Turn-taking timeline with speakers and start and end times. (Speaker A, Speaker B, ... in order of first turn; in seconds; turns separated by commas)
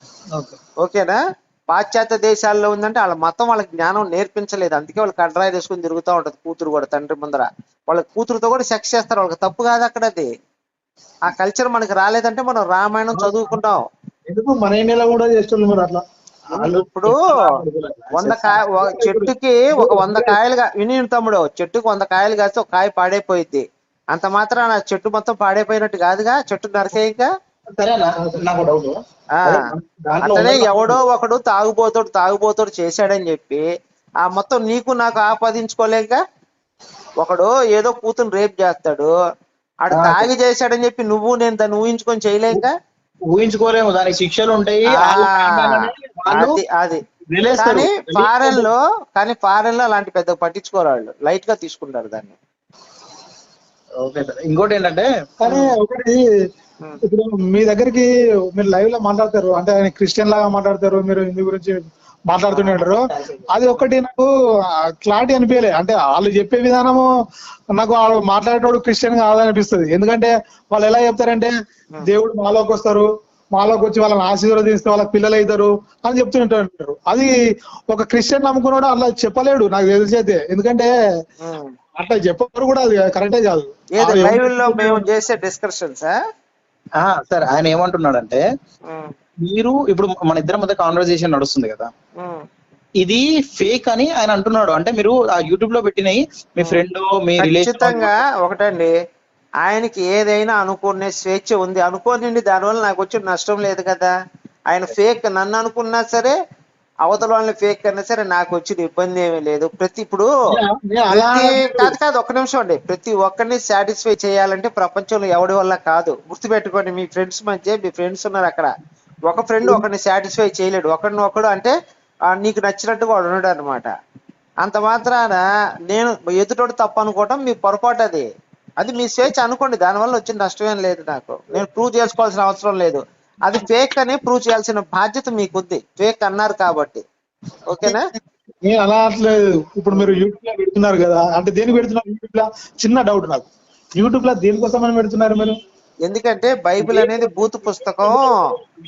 Speaker A: 0.8-10.3, Speaker A: 11.3-13.8, Speaker B: 13.1-13.6, Speaker B: 14.3-16.0, Speaker B: 16.6-16.9, Speaker A: 16.6-17.4, Speaker C: 17.1-18.4, Speaker A: 18.1-27.3, Speaker B: 18.3-20.4, Speaker C: 27.8-31.0, Speaker A: 30.2-33.6, Speaker A: 34.2-36.2, Speaker A: 37.2-39.1, Speaker A: 39.8-42.7, Speaker C: 39.9-40.3, Speaker C: 43.3-46.6, Speaker A: 45.0-45.7, Speaker A: 46.3-47.0, Speaker C: 47.3-48.7, Speaker A: 47.6-52.4, Speaker C: 54.0-55.1, Speaker B: 55.4-56.2, Speaker A: 55.5-55.7, Speaker B: 57.0-64.3, Speaker C: 62.5-63.9, Speaker B: 65.0-67.1, Speaker B: 67.7-77.4, Speaker B: 77.9-80.9, Speaker A: 81.4-81.7, Speaker B: 82.0-85.1, Speaker A: 84.0-86.2, Speaker C: 87.0-88.4, Speaker C: 89.4-91.9, Speaker A: 92.2-92.4, Speaker C: 93.0-98.2, Speaker A: 97.4-98.9, Speaker A: 99.6-104.1, Speaker A: 104.7-106.4, Speaker A: 107.0-110.3, Speaker B: 110.5-112.0, Speaker A: 111.1-118.7, Speaker A: 119.3-121.7, Speaker A: 122.3-123.9, Speaker A: 124.6-128.3, Speaker A: 128.8-137.0, Speaker A: 137.7-138.1, Speaker B: 138.6-145.6, Speaker A: 146.1-148.4